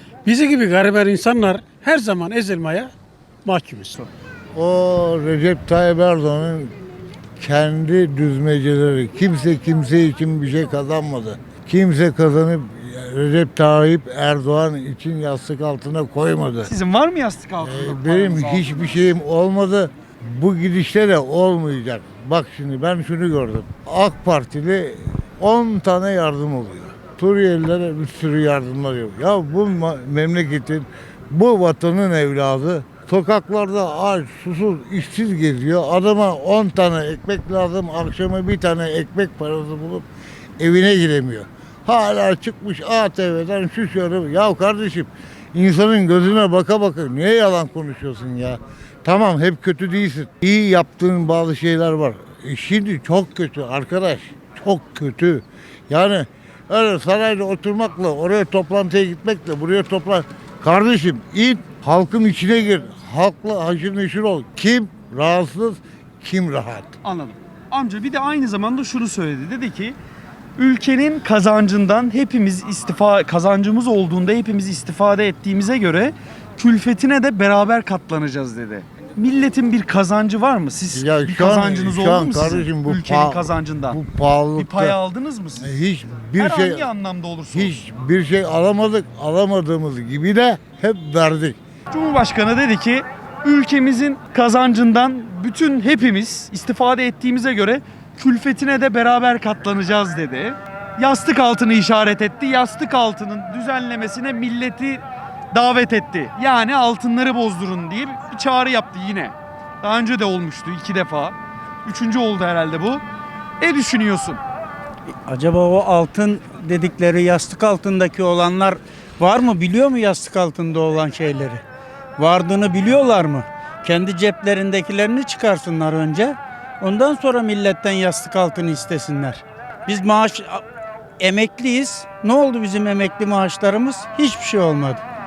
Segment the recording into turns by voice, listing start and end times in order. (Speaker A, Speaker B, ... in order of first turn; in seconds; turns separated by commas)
Speaker A: 0.2-2.9, Speaker A: 3.5-4.1, Speaker B: 4.5-6.7, Speaker B: 7.4-16.7, Speaker C: 16.6-19.0, Speaker B: 17.6-40.0, Speaker B: 40.6-66.9, Speaker C: 67.0-70.0, Speaker C: 70.6-84.0, Speaker B: 80.9-85.0, Speaker C: 84.6-85.8, Speaker B: 85.6-86.9, Speaker C: 86.4-87.8, Speaker B: 87.5-91.6, Speaker C: 91.9-113.0, Speaker C: 113.6-114.4, Speaker D: 115.2-121.6, Speaker D: 122.2-130.6, Speaker D: 131.2-135.0